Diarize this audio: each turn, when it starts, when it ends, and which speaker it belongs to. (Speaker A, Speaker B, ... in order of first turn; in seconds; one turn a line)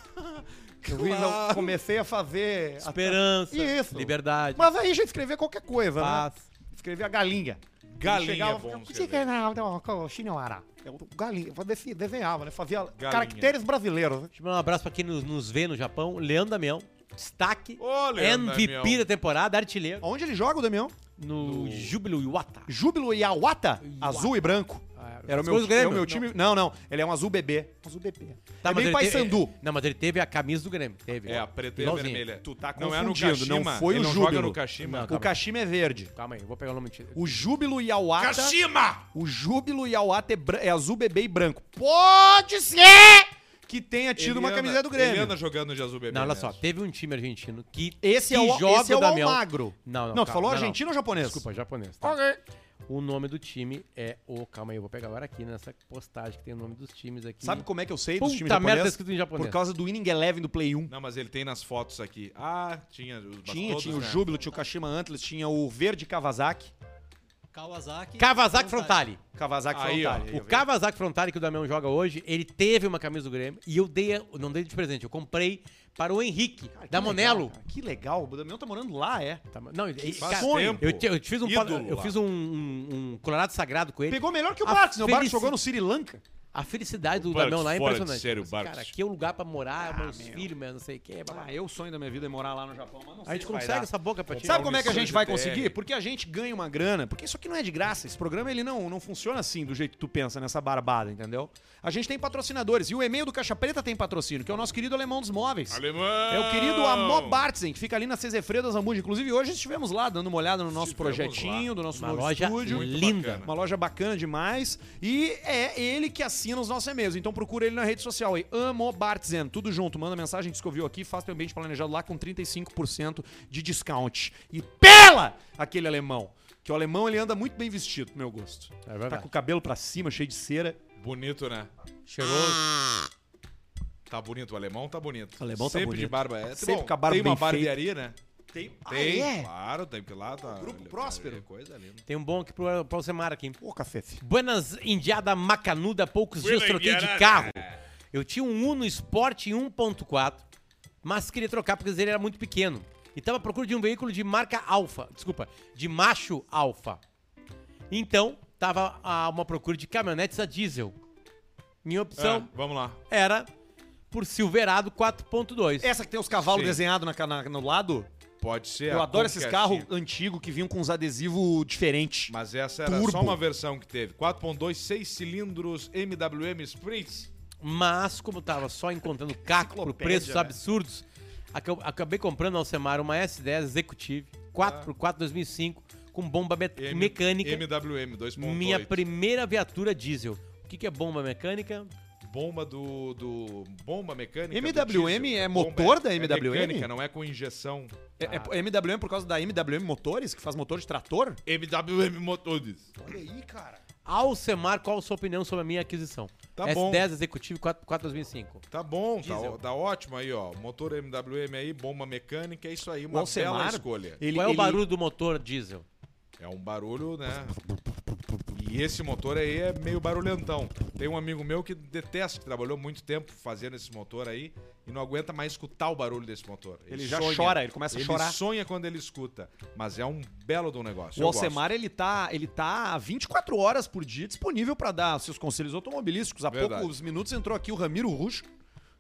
Speaker A: 0.2-1.8
Speaker B: 0.8-14.3
Speaker C: 2.8-4.7
Speaker C: 6.0-6.5
Speaker A: 7.9-9.3
Speaker A: 13.0-13.5
Speaker C: 14.3-20.1
Speaker A: 17.8-19.0
Speaker B: 20.0-20.9
Speaker C: 21.2-22.7
Speaker A: 21.4-21.9
Speaker B: 22.7-29.5
Speaker C: 23.8-26.3
Speaker C: 28.6-32.2
Speaker A: 31.2-35.1
Speaker B: 32.4-36.1
Speaker C: 34.8-35.4
Speaker C: 36.1-37.4
Speaker B: 37.1-38.6
Speaker A: 38.2-39.1
Speaker B: 39.1-45.4
Speaker A: 44.2-46.6
Speaker C: 46.1-52.2
Speaker B: 48.0-51.4
Speaker B: 52.0-52.4
Speaker C: 52.9-57.7
Speaker B: 57.4-60.9
Speaker C: 58.2-59.6
Speaker A: 60.9-64.3
Speaker B: 63.5-66.7
Speaker D: 63.8-64.6
Speaker D: 67.5-69.1
Speaker C: 68.2-69.2
Speaker B: 69.3-70.7
Speaker A: 69.7-70.3
Speaker C: 70.3-77.5
Speaker B: 76.7-79.4
Speaker C: 79.5-85.5
Speaker B: 80.0-80.8
Speaker A: 80.2-82.2
Speaker B: 84.1-86.2
Speaker C: 86.5-91.5
Speaker A: 87.2-88.9
Speaker B: 89.8-90.5
Speaker B: 91.3-93.9
Speaker C: 93.3-95.2
Speaker A: 94.3-95.8
Speaker B: 94.4-112.9
Speaker A: 105.7-107.5
Speaker A: 110.7-111.7
Speaker C: 111.9-113.5
Speaker A: 112.6-113.5
Speaker B: 113.4-130.8
Speaker C: 128.9-129.3
Speaker A: 131.0-131.7
Speaker C: 132.1-132.8
Speaker A: 134.1-138.2
Speaker B: 135.4-137.8
Speaker B: 138.5-139.5
Speaker A: 138.9-142.0
Speaker B: 140.4-141.4
Speaker C: 142.1-143.6
Speaker B: 143.6-144.2
Speaker C: 144.2-150.4
Speaker A: 146.4-147.8
Speaker C: 151.0-157.0
Speaker C: 157.9-161.0
Speaker C: 161.8-162.5
Speaker A: 162.2-163.0
Speaker C: 163.1-163.5
Speaker C: 164.1-165.9
Speaker B: 165.8-168.1
Speaker A: 166.4-166.8
Speaker A: 168.4-169.9
Speaker B: 168.9-173.4
Speaker A: 172.3-177.3
Speaker C: 177.6-187.7
Speaker B: 179.4-180.6
Speaker A: 184.6-184.9
Speaker A: 186.8-189.0
Speaker C: 188.4-191.9
Speaker A: 192.2-198.0
Speaker B: 194.5-196.9
Speaker B: 198.2-201.4
Speaker C: 198.2-198.5
Speaker A: 201.5-202.9
Speaker B: 203.0-203.8
Speaker C: 204.1-208.6
Speaker A: 206.6-207.1
Speaker A: 208.7-214.2
Speaker C: 209.2-209.6
Speaker B: 213.1-214.8
Speaker C: 214.3-215.8
Speaker A: 216.4-217.6
Speaker A: 218.5-231.6
Speaker B: 226.9-228.4
Speaker B: 231.2-238.5
Speaker A: 236.5-236.9